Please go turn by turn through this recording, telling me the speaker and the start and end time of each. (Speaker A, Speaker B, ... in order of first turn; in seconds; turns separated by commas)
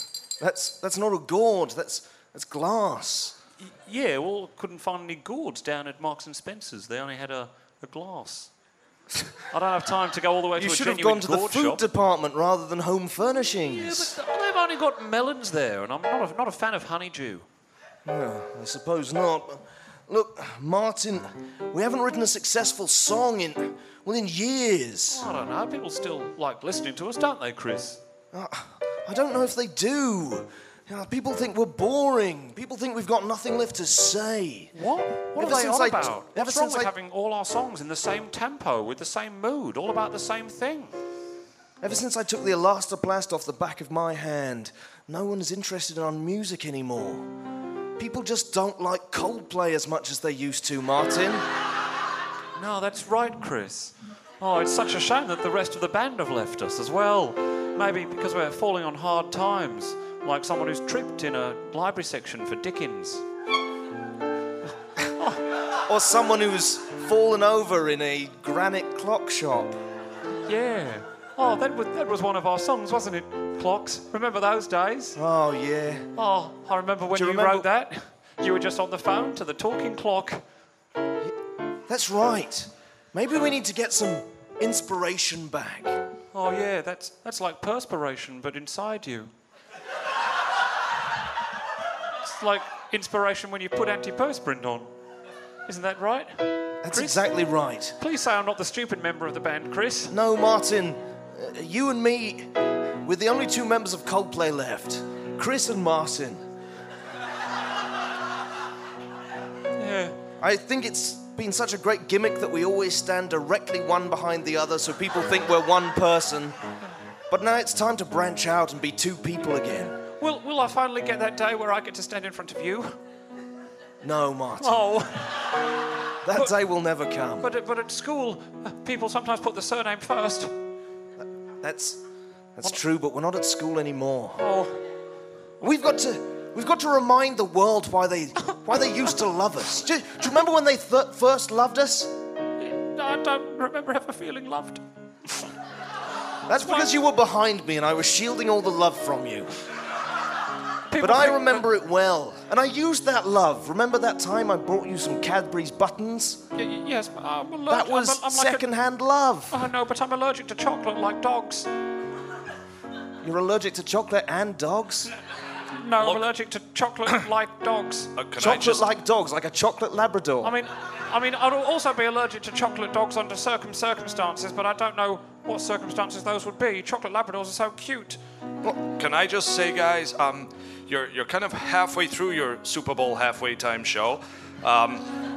Speaker A: 0.4-3.4, Speaker B: 3.6-8.5, Speaker B: 9.5-11.8, Speaker A: 10.6-14.1, Speaker B: 13.7-17.4, Speaker A: 18.0-25.3, Speaker B: 25.1-28.0, Speaker A: 28.3-34.7, Speaker B: 34.7-40.9, Speaker A: 35.3-36.9, Speaker A: 41.8-47.3, Speaker A: 48.0-51.4, Speaker B: 52.5-63.2, Speaker A: 65.8-69.8, Speaker B: 70.5-75.2, Speaker A: 75.2-76.1, Speaker B: 76.2-80.4, Speaker A: 77.1-77.7, Speaker A: 81.9-86.0, Speaker B: 86.3-89.3, Speaker B: 92.2-94.9, Speaker B: 95.7-97.2, Speaker A: 96.8-98.0, Speaker B: 98.0-100.1, Speaker A: 100.1-102.5, Speaker A: 103.0-106.4, Speaker B: 109.8-110.2, Speaker A: 110.4-116.6, Speaker A: 117.3-120.0, Speaker B: 120.2-123.0, Speaker A: 124.0-124.8, Speaker B: 124.6-125.3, Speaker A: 126.2-127.5, Speaker B: 127.4-130.5, Speaker A: 131.2-132.0, Speaker A: 132.5-134.4, Speaker B: 134.4-134.7, Speaker A: 135.6-142.1, Speaker B: 142.6-144.8, Speaker A: 146.5-149.5, Speaker B: 146.6-146.9, Speaker B: 150.9-151.6, Speaker A: 151.0-156.4, Speaker B: 156.5-158.6, Speaker A: 157.7-159.7, Speaker B: 159.5-161.7, Speaker A: 163.2-165.1, Speaker B: 165.7-168.1, Speaker C: 166.0-166.2, Speaker C: 168.2-168.8, Speaker A: 168.4-170.5, Speaker B: 170.4-178.2, Speaker C: 178.9-185.1